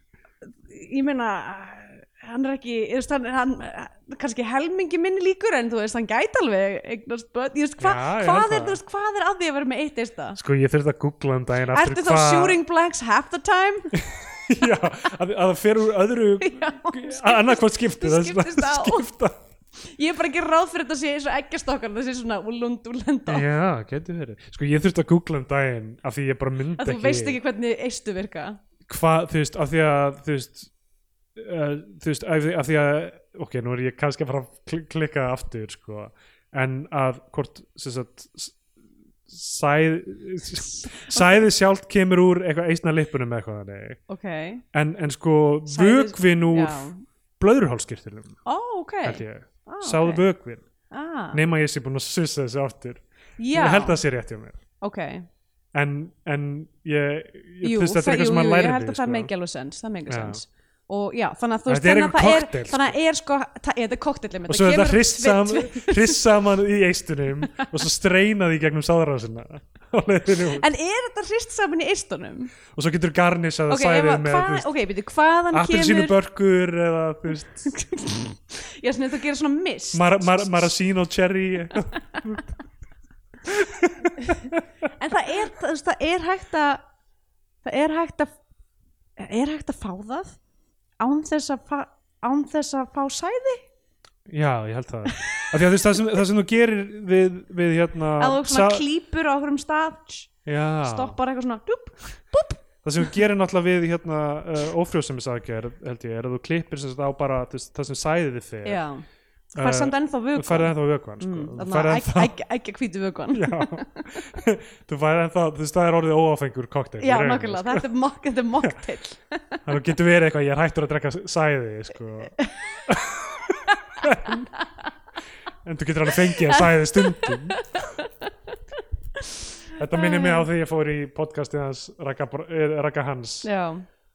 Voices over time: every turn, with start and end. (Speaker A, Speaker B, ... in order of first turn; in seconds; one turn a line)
Speaker A: 0.6-10.4
Speaker B: 7.8-8.8
Speaker B: 10.3-12.6
Speaker A: 11.7-13.9
Speaker B: 13.9-19.5
Speaker A: 16.4-19.1
Speaker A: 19.8-23.4
Speaker B: 23.3-27.4
Speaker A: 26.8-28.6
Speaker B: 28.9-30.7
Speaker B: 31.4-38.6
Speaker B: 39.3-44.0
Speaker A: 40.7-41.4
Speaker A: 44.1-44.6
Speaker B: 44.7-48.4
Speaker A: 45.7-47.0
Speaker A: 48.4-50.2
Speaker B: 49.0-50.6
Speaker A: 50.9-51.4
Speaker B: 51.3-54.6
Speaker A: 53.4-54.0
Speaker A: 54.8-55.3
Speaker B: 55.7-59.3
Speaker A: 57.6-66.3
Speaker B: 60.1-60.4
Speaker B: 61.7-62.9
Speaker B: 64.5-70.6
Speaker A: 67.4-67.8
Speaker A: 70.5-72.5
Speaker B: 72.7-74.7
Speaker A: 73.7-76.2
Speaker B: 75.5-77.7
Speaker A: 77.6-80.7
Speaker B: 79.9-82.5
Speaker B: 83.5-84.6
Speaker A: 84.2-86.8
Speaker A: 87.6-88.3
Speaker A: 89.2-90.4
Speaker A: 91.0-93.6
Speaker B: 94.3-98.8
Speaker A: 95.1-96.1
Speaker A: 98.2-100.3
Speaker B: 100.5-101.2
Speaker A: 100.8-103.2
Speaker B: 102.8-108.8
Speaker A: 108.6-109.0
Speaker A: 109.5-114.1
Speaker B: 109.6-112.4
Speaker B: 113.3-117.9
Speaker A: 117.0-119.6
Speaker B: 119.6-124.5
Speaker B: 125.6-127.6
Speaker A: 126.1-128.6
Speaker B: 129.7-133.5
Speaker A: 129.9-130.5
Speaker A: 133.4-133.8